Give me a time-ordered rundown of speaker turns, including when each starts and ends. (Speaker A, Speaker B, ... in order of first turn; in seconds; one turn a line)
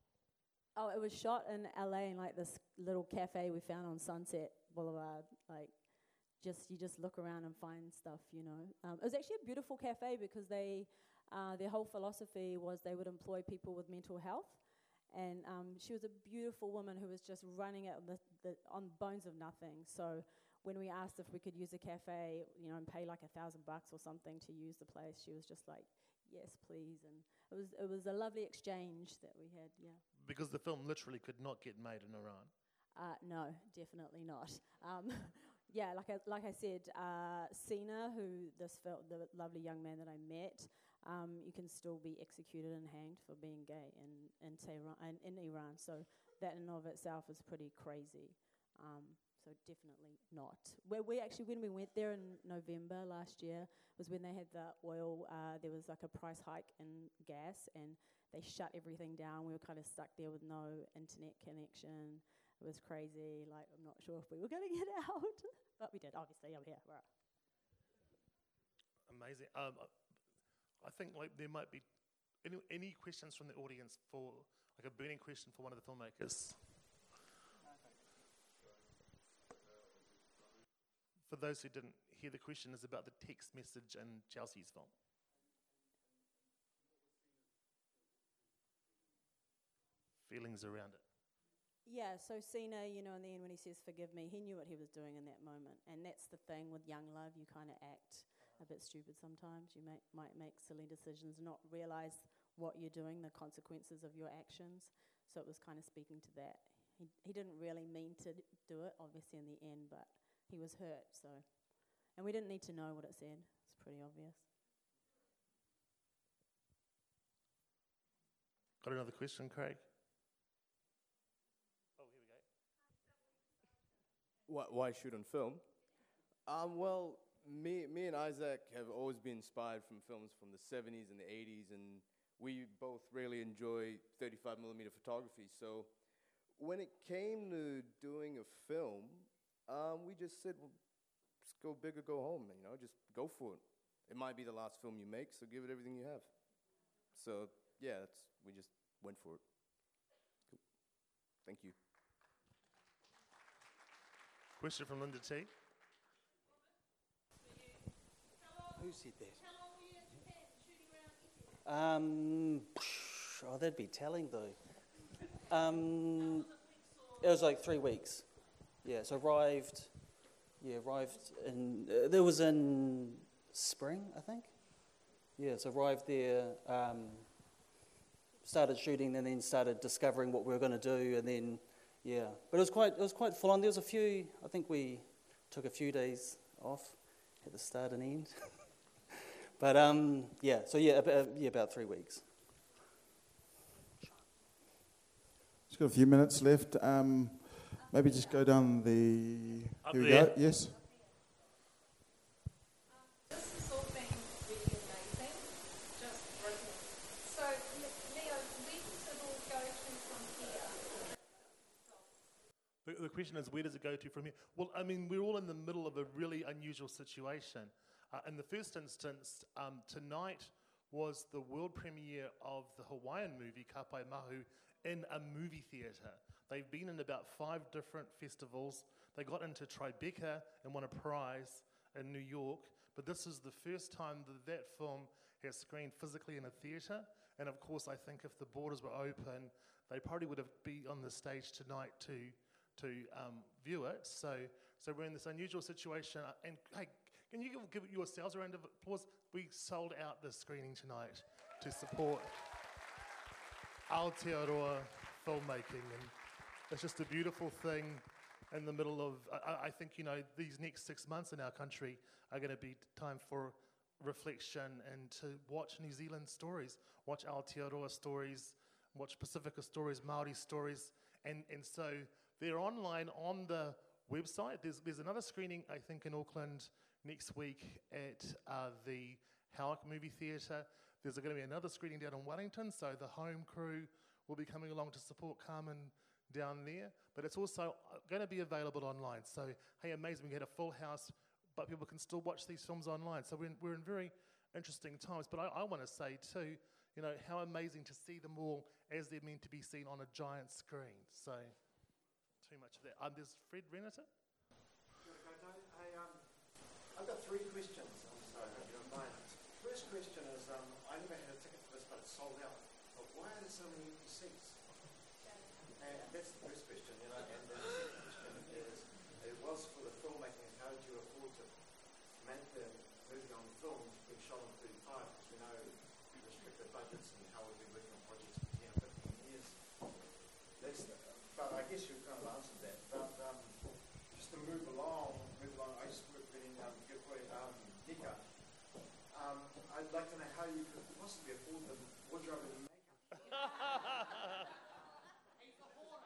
Speaker A: 0.7-30.0
Speaker B: 30.2-32.5
Speaker A: 32.9-67.1
Speaker B: 69.1-69.9
Speaker B: 70.8-71.8
Speaker B: 72.4-76.7
Speaker B: 81.2-84.9
Speaker B: 90.2-91.0
Speaker A: 91.8-114.5
Speaker B: 118.8-119.8
Speaker B: 122.0-122.4
Speaker C: 124.5-125.6
Speaker C: 126.5-135.9
Speaker C: 136.6-140.8
Speaker C: 141.4-146.3
Speaker C: 147.1-151.8
Speaker B: 154.6-155.5
Speaker D: 158.7-159.5
Speaker D: 161.6-177.6
Speaker D: 178.4-188.9
Speaker D: 189.6-192.5
Speaker E: 195.7-200.8
Speaker B: 199.8-200.4
Speaker F: 202.9-212.2
Speaker B: 212.8-252.4
Speaker B: 253.9-256.1
Speaker B: 256.7-301.6
Speaker B: 302.4-304.1
Speaker G: 305.0-314.9
Speaker F: 315.2-316.0
Speaker G: 315.7-343.1